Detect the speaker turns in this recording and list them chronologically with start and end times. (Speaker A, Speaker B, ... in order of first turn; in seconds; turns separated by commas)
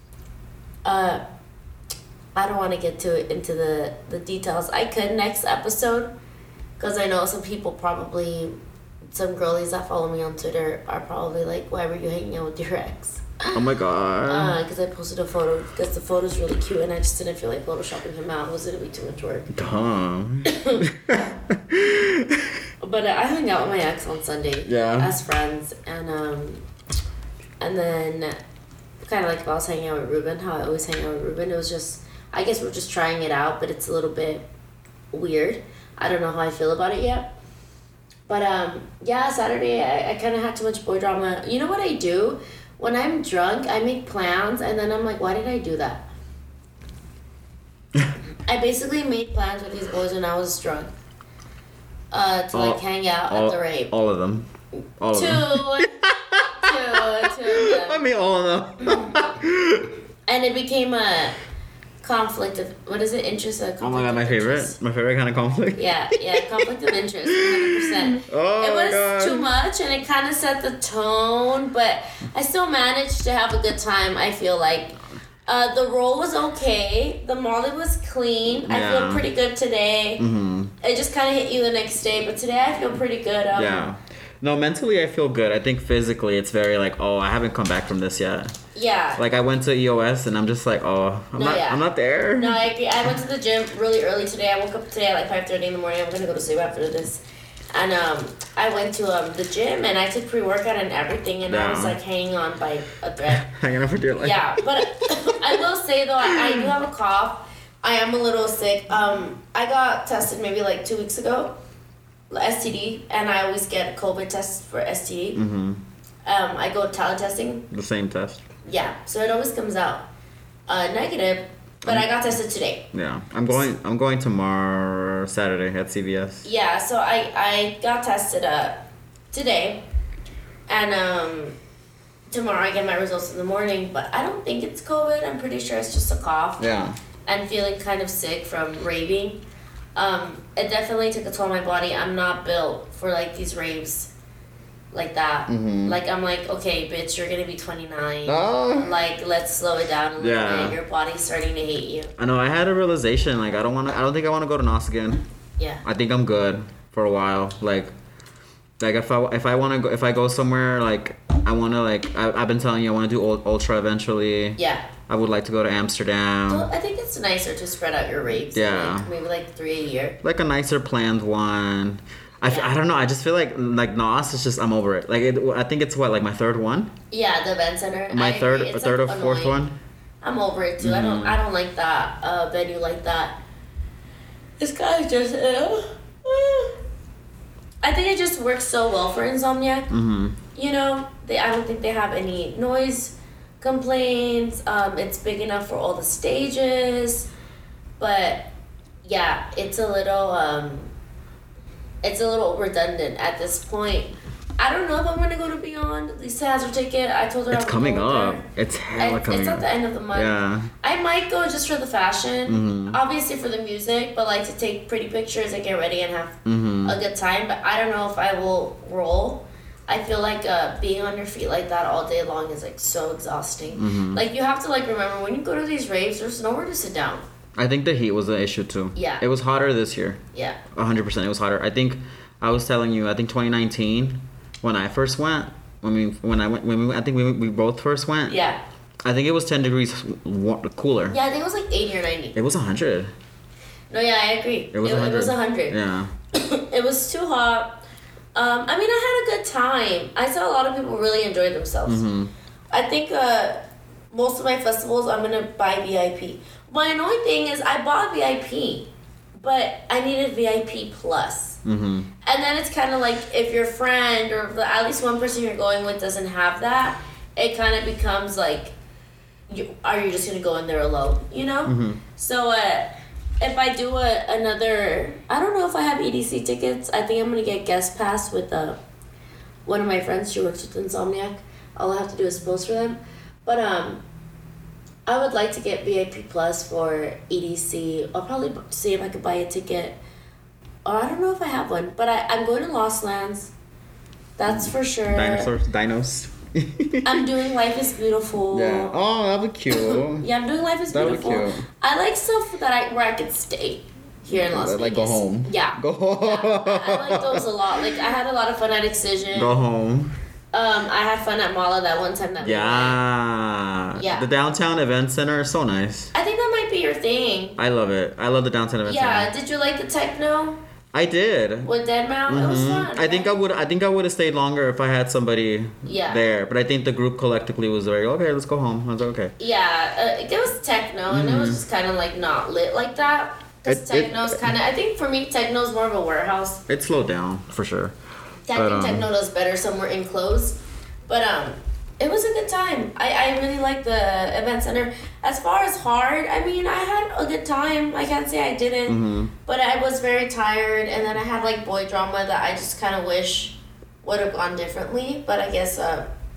Speaker A: 0.8-1.2, Speaker A: 2.3-6.1, Speaker A: 6.8-8.5, Speaker A: 9.1-13.7, Speaker B: 13.5-14.6, Speaker A: 14.3-19.5, Speaker B: 19.5-22.6, Speaker A: 20.4-20.9, Speaker A: 22.8-26.6, Speaker B: 24.6-25.1, Speaker A: 27.6-28.4, Speaker A: 29.0-34.5, Speaker A: 35.1-37.4, Speaker A: 38.3-46.1, Speaker A: 48.5-50.9, Speaker A: 52.1-53.9, Speaker B: 52.5-54.5, Speaker B: 55.0-60.0, Speaker A: 55.1-58.0, Speaker A: 58.8-59.3, Speaker A: 60.3-61.4, Speaker A: 62.0-64.8, Speaker B: 63.8-66.6, Speaker A: 65.8-80.2, Speaker B: 67.3-69.5, Speaker B: 78.6-79.2, Speaker B: 80.2-80.7, Speaker A: 80.8-83.9, Speaker B: 83.5-88.5, Speaker A: 88.7-89.2, Speaker B: 89.2-92.7, Speaker A: 91.3-97.2, Speaker A: 97.7-103.5, Speaker B: 101.5-102.0, Speaker B: 103.3-104.4, Speaker A: 104.2-111.5, Speaker B: 106.2-106.7, Speaker A: 112.3-115.4, Speaker B: 115.3-115.8, Speaker A: 116.2-117.7, Speaker B: 117.7-118.4, Speaker A: 118.6-120.1, Speaker A: 120.7-122.9, Speaker B: 121.8-122.1, Speaker B: 122.9-126.5, Speaker A: 126.4-128.8, Speaker A: 129.3-129.8, Speaker A: 130.7-131.6, Speaker A: 132.3-136.7, Speaker B: 136.6-136.9, Speaker A: 137.2-139.4, Speaker A: 139.9-144.1, Speaker A: 144.9-152.1, Speaker B: 145.5-146.0, Speaker B: 148.2-148.9, Speaker B: 150.2-150.8, Speaker B: 152.2-155.2, Speaker B: 155.8-157.9, Speaker B: 158.8-166.7, Speaker A: 164.6-164.9, Speaker A: 166.5-170.2, Speaker B: 168.5-169.1, Speaker B: 170.2-176.9, Speaker A: 172.4-172.7, Speaker A: 177.1-179.6, Speaker B: 178.1-179.8, Speaker A: 180.2-183.4, Speaker B: 180.8-181.4, Speaker A: 184.6-186.8, Speaker A: 187.8-189.9, Speaker B: 189.9-190.4, Speaker A: 190.5-197.3, Speaker A: 198.0-198.5, Speaker A: 199.0-200.9, Speaker A: 202.0-227.2, Speaker B: 207.5-210.7, Speaker B: 212.4-213.0, Speaker B: 216.4-217.0, Speaker B: 223.7-224.2, Speaker B: 227.6-230.2, Speaker A: 228.9-229.2, Speaker A: 230.3-230.6, Speaker B: 230.7-238.4, Speaker A: 238.3-238.6, Speaker B: 239.0-241.2, Speaker A: 241.1-242.4, Speaker B: 242.3-243.1, Speaker A: 243.9-245.8, Speaker B: 244.7-246.1, Speaker A: 246.3-247.8, Speaker A: 248.3-252.0, Speaker B: 251.8-252.3, Speaker A: 252.7-261.6, Speaker B: 261.6-262.1, Speaker A: 262.2-268.7, Speaker A: 269.5-278.8, Speaker B: 271.6-272.0, Speaker A: 279.6-284.0, Speaker A: 285.1-290.0, Speaker A: 290.8-293.5, Speaker A: 294.4-295.5, Speaker B: 294.5-297.3, Speaker A: 297.0-298.9, Speaker B: 298.5-300.3, Speaker A: 299.7-309.6, Speaker B: 300.9-301.6, Speaker B: 304.3-307.8, Speaker B: 309.3-310.1, Speaker A: 310.5-313.0, Speaker B: 312.4-316.1, Speaker A: 313.9-314.3, Speaker A: 316.1-317.6, Speaker B: 317.6-319.3, Speaker A: 318.8-320.6, Speaker B: 320.9-321.7, Speaker A: 321.6-323.4, Speaker B: 322.3-329.3, Speaker A: 325.8-326.2, Speaker A: 329.4-336.6, Speaker B: 331.1-331.6, Speaker B: 333.7-334.5, Speaker B: 336.7-337.9, Speaker A: 338.5-356.1, Speaker B: 338.5-339.1, Speaker B: 348.9-349.3